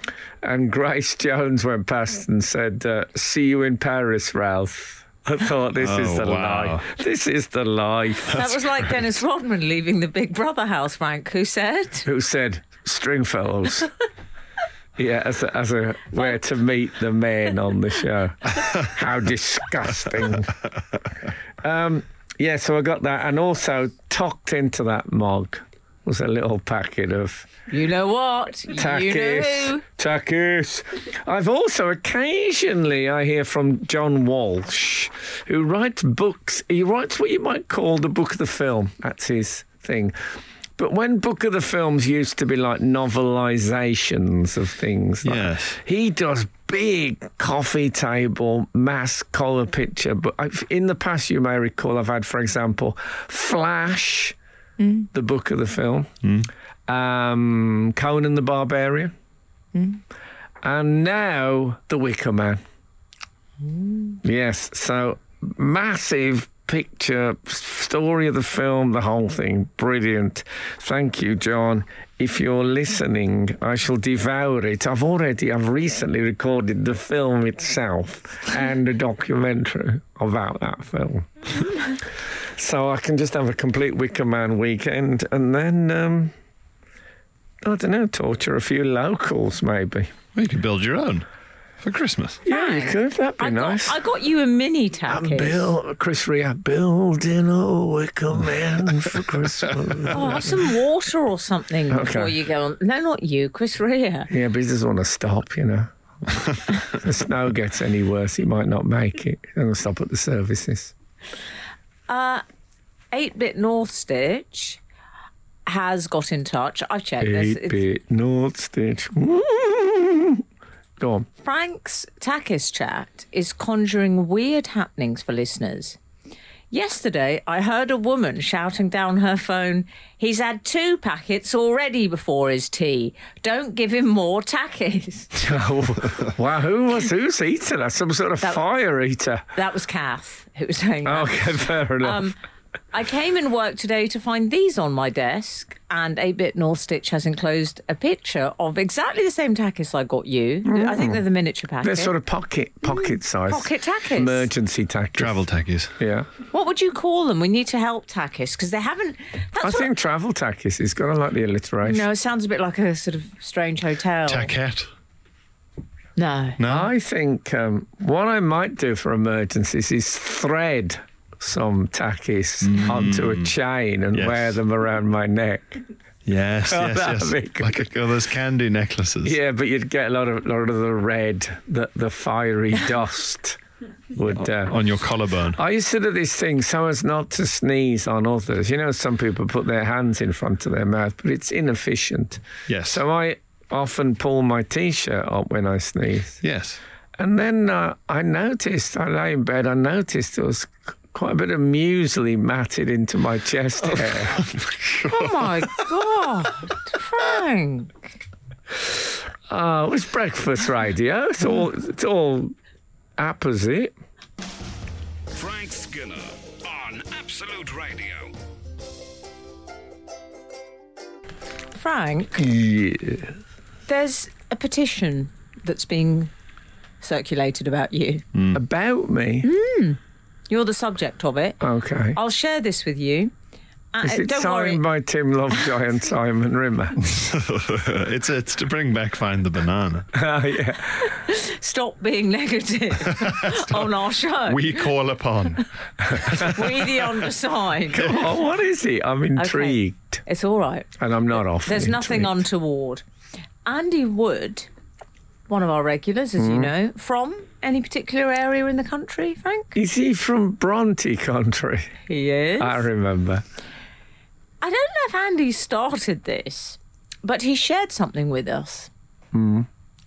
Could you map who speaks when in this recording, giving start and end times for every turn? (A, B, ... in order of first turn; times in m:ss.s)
0:00.4-0:08.4 A
0:05.8-0:06.8 B
0:08.2-0:12.1 C
0:12.0-0:13.9 A
0:15.0-0:20.5 A
0:21.6-0:27.5 A
0:27.7-0:29.8 C
0:28.7-0:40.1 A
0:40.8-0:54.4 A
0:45.2-0:45.8 B
0:54.8-0:55.1 C
0:55.1-0:56.1 A
0:56.2-0:56.5 B
0:56.9-0:59.1 A
0:59.7-1:00.0 C
1:00.6-1:02.6 A
1:03.8-1:04.1 C
1:04.2-1:21.3 A
1:22.5-1:26.3 A
1:27.6-1:30.1 A
1:30.3-1:31.2 B
1:31.8-1:32.4 B
1:32.4-1:34.0 A
1:32.4-1:35.7 C
1:35.1-1:40.6 A
1:40.1-1:44.3 C
1:41.9-1:42.3 A
1:44.3-1:45.9 A
1:46.8-1:50.9 A
1:52.1-1:52.4 C
1:53.1-1:54.8 C
1:55.6-1:57.8 C
1:57.2-2:00.4 A
2:01.0-2:01.3 A
2:01.4-2:06.0 C
2:06.7-2:15.3 C
2:15.3-2:19.4 A
2:19.5-2:22.4 C
2:21.0-2:22.2 A
2:22.9-2:32.1 C
2:30.6-2:31.2 A
2:31.8-2:35.4 A
2:32.9-2:34.5 C
2:35.2-2:35.9 B
2:36.0-2:36.3 A
2:36.5-2:39.9 C
2:39.6-2:42.0 A
2:41.8-2:44.5 C
2:44.3-2:44.9 B
2:46.2-2:46.6 C
2:46.6-2:46.9 B
2:46.6-2:55.8 A
2:52.6-2:53.5 B
2:54.1-2:54.6 B
2:56.2-2:59.4 B
2:56.6-2:57.8 A
2:59.2-3:03.6 A
3:04.1-3:04.8 A
3:04.6-3:05.6 B
3:05.6-3:16.4 A
3:12.7-3:13.0 B
3:16.4-3:16.8 B
3:17.2-3:24.4 A
3:24.1-3:25.7 B
3:25.0-3:28.0 C
3:29.5-3:32.5 A
3:33.2-3:33.9 A
3:35.3-3:38.3 D
3:41.7-3:42.4 C
3:42.4-3:43.4 A
3:43.9-3:46.3 C
3:47.0-3:48.2 C
3:48.5-3:49.5 A
3:49.4-3:51.6 C
3:51.6-3:52.2 A
3:52.1-3:53.3 C
3:53.9-3:54.8 C
3:54.0-3:57.2 A
3:57.0-4:00.1 B
4:00.1-4:01.1 A
4:01.0-4:04.9 C
4:03.1-4:06.5 B
4:06.1-4:06.4 A
4:06.2-4:08.1 C
4:07.9-4:10.2 A
4:09.4-4:10.9 C
4:11.0-4:12.4 A
4:11.6-4:13.0 C
4:13.6-4:14.7 C
4:15.5-4:19.7 C
4:16.4-4:16.7 A
4:19.7-4:21.9 A
4:22.1-4:22.8 C
4:22.6-4:23.4 A
4:24.6-4:28.9 C
4:29.3-4:29.7 A